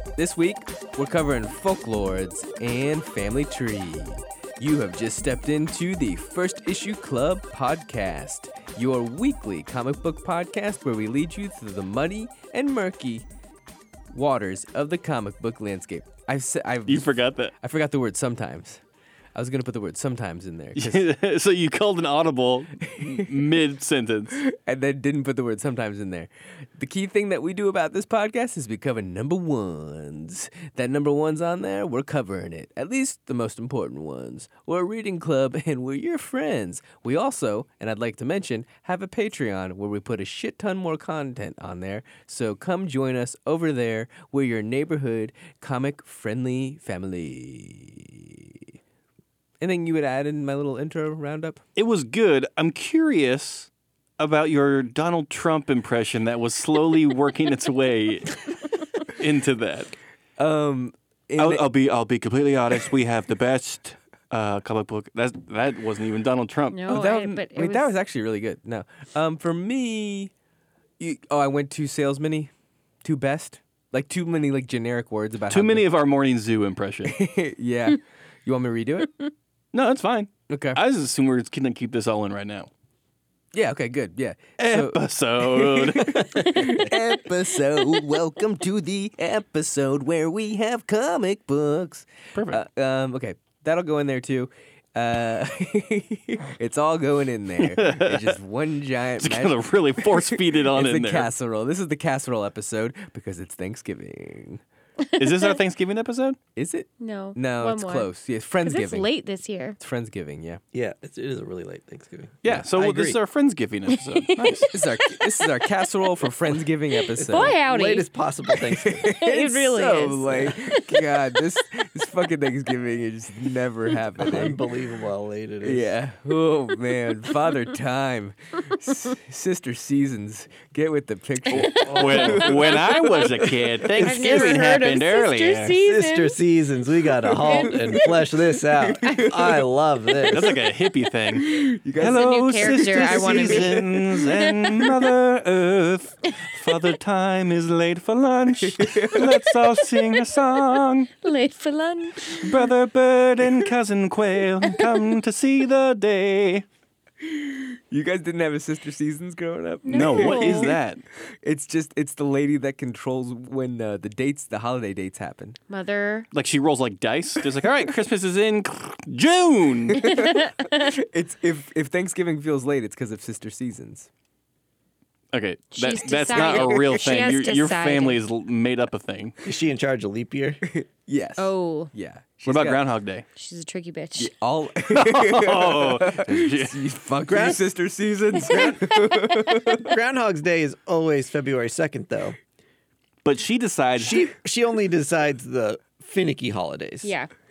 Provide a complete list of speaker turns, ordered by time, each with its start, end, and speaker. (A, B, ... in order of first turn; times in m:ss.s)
0:00.2-0:13.3 A
0:14.1-0:18.8 A
0:16.9-0:17.5 B
0:19.4-0:21.1 A
0:20.8-0:24.4 B
0:22.8-0:23.3 A
0:24.4-0:48.5 A
0:49.6-0:51.6 A
0:51.8-0:58.5 B
0:59.0-0:59.9 B
1:00.4-1:01.6 A
1:01.4-1:07.0 B
1:06.7-1:07.9 C
1:06.9-1:10.3 A
1:11.0-1:12.5 A
1:13.0-1:15.9 A
1:15.5-1:17.2 B
1:17.1-1:19.2 A
1:19.7-1:22.7 B
1:20.5-1:20.8 A
1:23.5-1:44.6 A
1:24.6-1:26.9 B
1:32.4-1:32.6 B
1:37.6-1:38.4 B
1:39.2-1:41.3 B
1:45.0-1:45.5 C
1:45.2-1:46.4 B
1:46.6-1:49.1 A
1:47.0-1:48.1 C
1:48.6-1:49.8 C
1:49.8-1:50.6 A
1:50.7-1:53.2 D
1:52.4-1:54.7 B
1:54.4-1:55.4 C
1:54.7-1:57.6 A
1:57.2-2:01.1 C
1:57.2-1:59.1 D
1:58.7-2:04.6 A
2:04.2-2:05.9 D
2:05.6-2:13.9 A
2:11.5-2:13.2 C
2:11.5-2:15.8 B
2:11.7-2:12.6 D
2:13.9-2:16.4 C
2:14.1-2:14.6 D
2:15.7-2:20.6 D
2:17.3-2:18.1 C
2:19.0-2:19.5 C
2:19.1-2:19.3 A
2:20.3-2:31.1 B
2:21.4-2:24.2 A
2:22.1-2:24.9 C
2:28.6-2:29.4 A
2:31.2-2:32.5 C
2:32.4-2:36.6 B
2:37.2-2:40.8 A
2:39.8-2:40.8 C
2:39.9-2:41.0 B
2:41.4-2:45.6 A
2:45.7-2:46.3 C
2:46.3-2:50.1 B
2:49.9-2:50.9 C
2:50.0-2:54.1 A
2:55.3-2:59.4 B
2:55.8-2:58.2 C
2:56.4-2:56.8 A
2:59.4-3:00.6 D
3:00.6-3:02.9 A
3:01.4-3:01.9 C
3:02.5-3:03.2 B
3:03.4-3:04.3 C
3:04.2-3:09.9 A
3:04.9-3:06.8 B
3:07.2-3:07.6 D
3:08.4-3:09.7 C
3:08.4-3:08.8 D
3:09.8-3:12.4 D
3:13.2-3:14.3 B
3:14.0-3:17.1 D
3:17.0-3:17.3 C